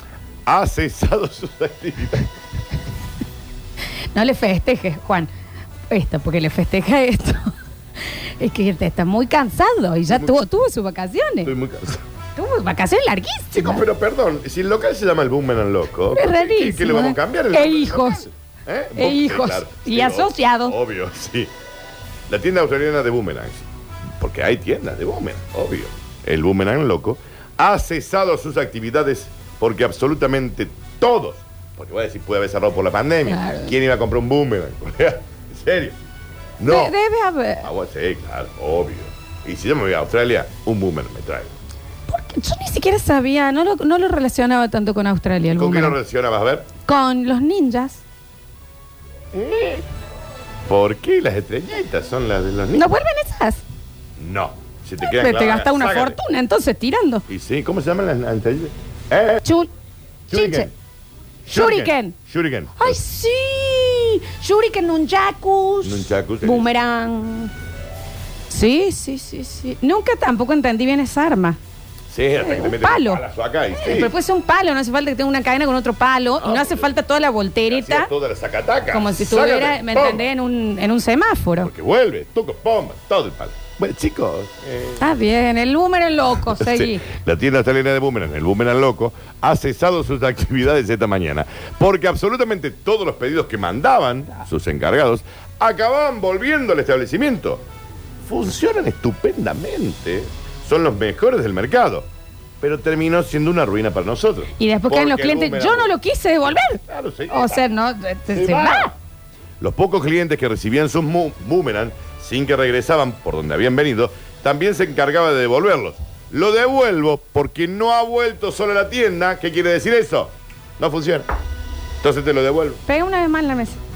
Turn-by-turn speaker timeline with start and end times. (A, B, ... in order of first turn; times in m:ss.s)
0:00.4-0:02.3 A
0:04.1-0:05.3 B
0:05.9-0:07.5 B
0:08.0-0:11.5 B
0:11.4-0:12.0 A
0:12.4-0:13.8 B
0:13.5-0:21.5 A
0:16.1-0:18.3 B
0:18.9-0:20.8 B
0:22.3-0:23.6 A
0:24.2-0:36.0 A
0:33.3-0:33.7 B
0:36.6-0:37.0 A
0:36.7-0:37.7 B
0:37.6-0:41.5 A
0:42.1-0:46.0 B
0:45.5-0:46.7 A
0:46.8-0:48.0 B
0:49.3-0:49.9 A
0:50.7-0:52.8 A
0:52.7-0:53.6 B
0:54.2-0:56.2 A
0:55.0-0:57.2 B
0:57.3-0:59.4 A
0:59.4-0:59.7 B
1:00.3-1:00.7 A
1:00.3-1:00.7 B
1:01.5-1:02.2 B
1:01.5-1:03.0 A
1:02.8-1:07.5 B
1:05.8-1:06.7 A
1:08.5-1:11.6 B
1:12.1-1:14.1 A
1:12.4-1:13.2 B
1:13.8-1:18.1 B
1:16.4-1:16.9 A
1:17.6-1:20.2 A
1:18.9-1:21.7 B
1:21.6-1:25.0 A
1:25.0-1:27.0 B
1:26.5-1:37.6 A
1:38.2-1:42.1 A
1:42.6-1:46.0 A
1:44.6-1:48.9 B
1:46.5-1:47.6 A
1:48.3-1:48.9 A
1:49.6-2:01.3 A
2:02.0-2:02.8 A
2:02.8-2:03.8 B